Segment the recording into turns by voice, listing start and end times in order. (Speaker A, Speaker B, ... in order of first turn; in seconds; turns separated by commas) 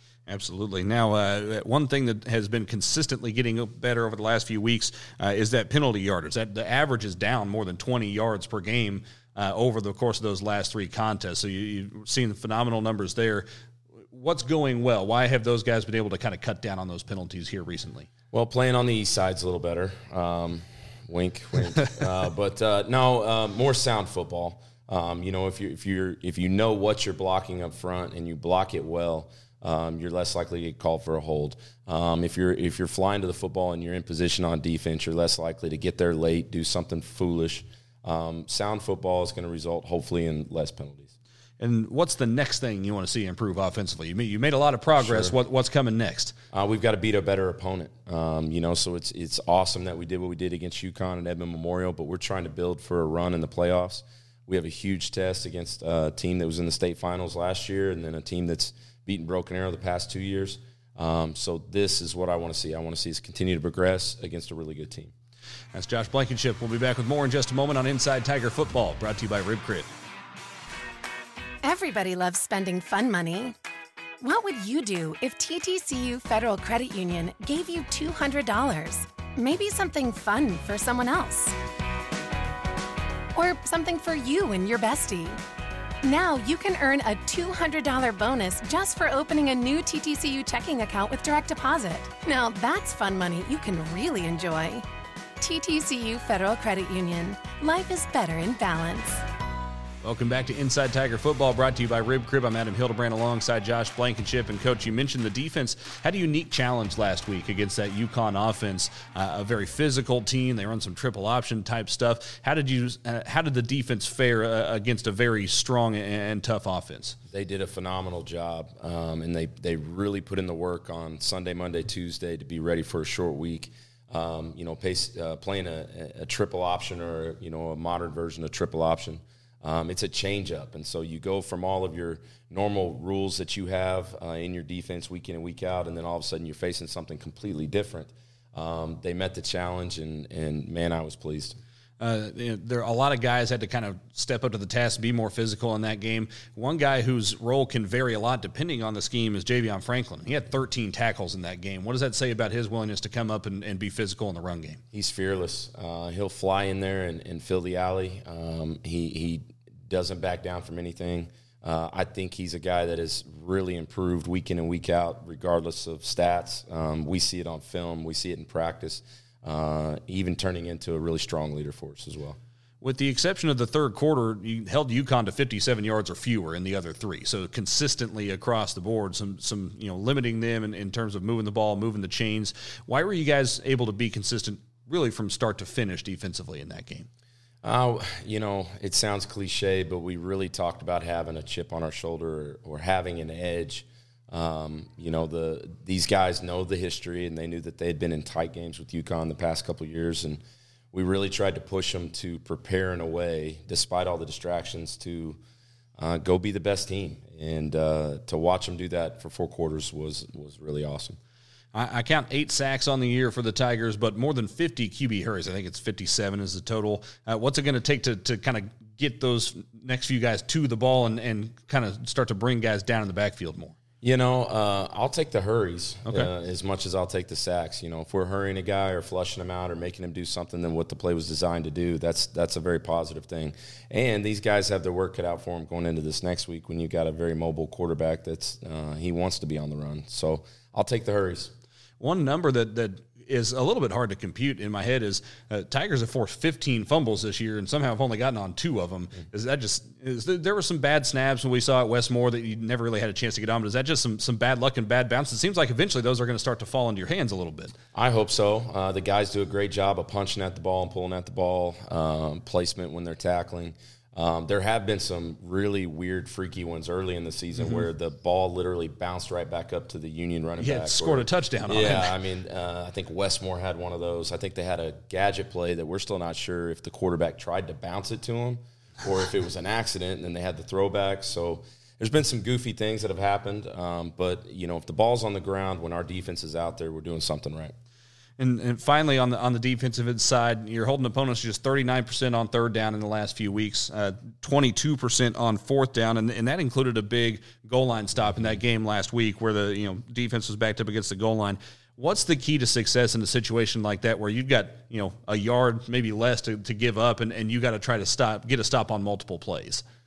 Speaker A: 0.3-13.4, Speaker A: 14.1-18.1, Speaker B: 18.3-41.1, Speaker A: 41.6-46.3, Speaker B: 45.0-45.3, Speaker B: 46.5-65.1, Speaker A: 65.7-69.9, Speaker C: 71.6-73.5, Speaker C: 74.2-81.5, Speaker C: 83.3-85.4, Speaker C: 86.0-94.8, Speaker C: 95.4-99.2, Speaker A: 100.0-117.2, Speaker B: 117.3-141.6, Speaker A: 142.0-154.8, Speaker B: 154.9-172.4, Speaker A: 172.8-187.1, Speaker B: 187.6-200.4, Speaker B: 200.9-205.4, Speaker B: 206.0-211.2, Speaker A: 211.7-223.7, Speaker B: 224.0-241.5, Speaker A: 242.0-257.7, Speaker B: 257.9-287.7, Speaker A: 267.6-267.8, Speaker A: 270.6-272.2, Speaker A: 288.4-309.8